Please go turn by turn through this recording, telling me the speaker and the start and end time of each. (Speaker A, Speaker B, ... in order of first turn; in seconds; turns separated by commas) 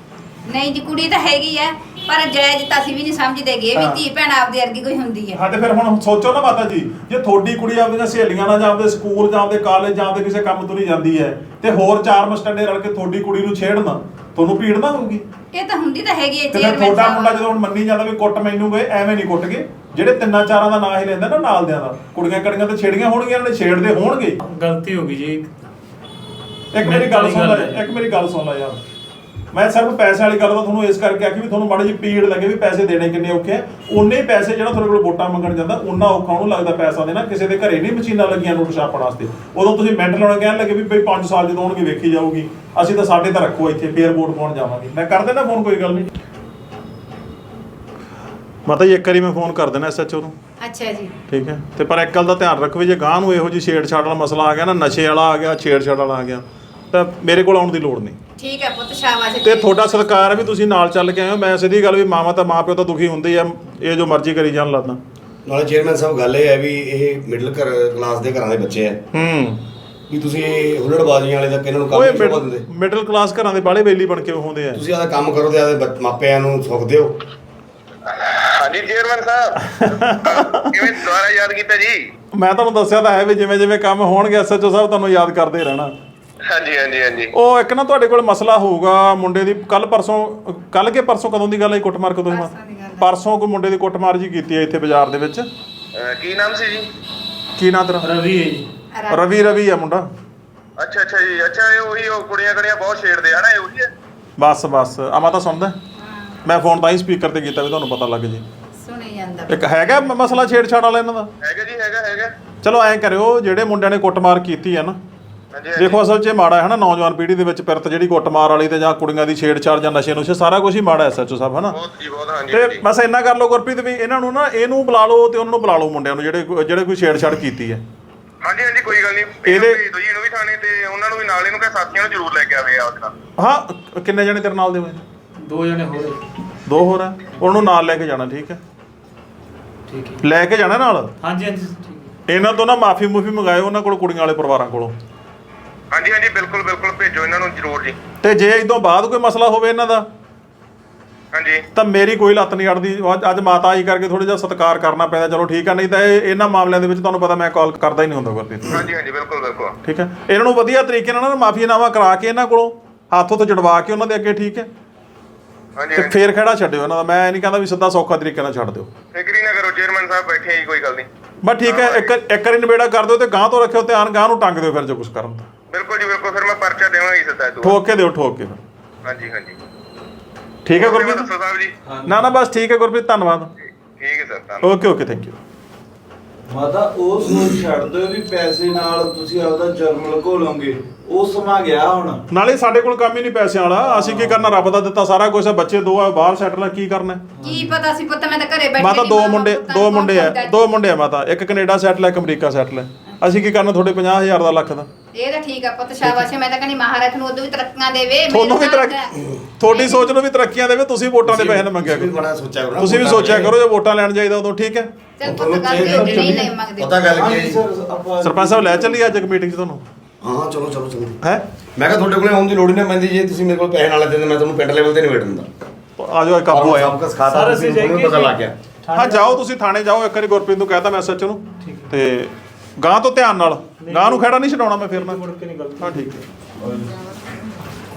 Speaker A: 0.5-5.4, Speaker B: 3.7-4.0, Speaker B: 5.3-15.2, Speaker A: 15.5-17.4, Speaker B: 16.5-24.4, Speaker C: 24.4-25.5, Speaker B: 26.7-28.8, Speaker C: 26.8-27.8, Speaker B: 29.5-46.1, Speaker B: 48.7-50.3, Speaker A: 50.6-51.1, Speaker B: 51.3-58.2, Speaker A: 58.4-60.1, Speaker B: 59.4-65.0, Speaker D: 65.4-69.0, Speaker B: 69.1-69.6, Speaker D: 70.1-72.7, Speaker B: 71.9-74.8, Speaker D: 74.7-77.2, Speaker E: 78.0-82.0, Speaker B: 79.7-80.9, Speaker B: 82.3-85.9, Speaker E: 86.5-87.3, Speaker B: 87.3-95.5, Speaker A: 92.3-93.1, Speaker E: 95.9-96.9, Speaker B: 97.6-98.1, Speaker C: 98.0-98.6, Speaker A: 98.9-99.5, Speaker B: 99.1-100.1, Speaker E: 100.8-103.9, Speaker B: 104.4-105.8, Speaker A: 106.0-106.4, Speaker B: 106.4-108.4, Speaker A: 108.8-109.7, Speaker B: 109.5-111.3, Speaker E: 111.4-112.4, Speaker B: 112.6-115.0, Speaker E: 115.5-116.0, Speaker B: 115.8-121.8, Speaker E: 121.7-122.8, Speaker B: 122.5-127.8, Speaker E: 128.4-133.1, Speaker B: 129.4-129.8, Speaker B: 133.4-135.0, Speaker C: 135.4-136.2, Speaker B: 136.7-138.6, Speaker C: 139.9-140.2, Speaker B: 140.2-141.1, Speaker C: 141.2-142.1, Speaker B: 142.3-144.9, Speaker E: 145.9-148.0, Speaker B: 148.2-150.1, Speaker E: 151.3-151.6, Speaker B: 151.8-158.8, Speaker E: 158.6-159.8, Speaker B: 159.8-164.7, Speaker E: 165.8-166.2, Speaker B: 165.9-168.9, Speaker E: 169.1-171.1, Speaker B: 171.4-175.5, Speaker E: 171.6-172.1, Speaker E: 175.7-177.8, Speaker B: 177.6-178.6, Speaker E: 179.0-179.6, Speaker B: 180.7-181.3, Speaker E: 180.7-181.7, Speaker F: 181.8-182.3, Speaker B: 182.1-183.5, Speaker E: 183.9-184.7, Speaker B: 184.6-185.3, Speaker F: 186.5-192.2, Speaker B: 192.3-197.3, Speaker F: 193.8-194.5, Speaker F: 197.4-197.7, Speaker A: 197.4-200.7, Speaker B: 198.8-204.9, Speaker A: 205.1-209.1, Speaker B: 208.3-209.0, Speaker B: 209.6-212.1, Speaker A: 209.7-210.1, Speaker D: 211.2-213.5, Speaker B: 212.8-214.9, Speaker A: 215.2-217.0, Speaker D: 215.2-217.6, Speaker B: 215.7-216.4, Speaker F: 215.8-216.2, Speaker F: 217.1-219.1, Speaker B: 218.2-219.8, Speaker D: 220.2-221.2, Speaker D: 221.8-225.5, Speaker B: 226.0-226.9, Speaker D: 226.5-228.5, Speaker C: 227.3-229.4, Speaker B: 228.9-235.2, Speaker C: 231.6-231.9, Speaker C: 233.8-236.2, Speaker B: 235.8-236.2, Speaker F: 236.6-236.9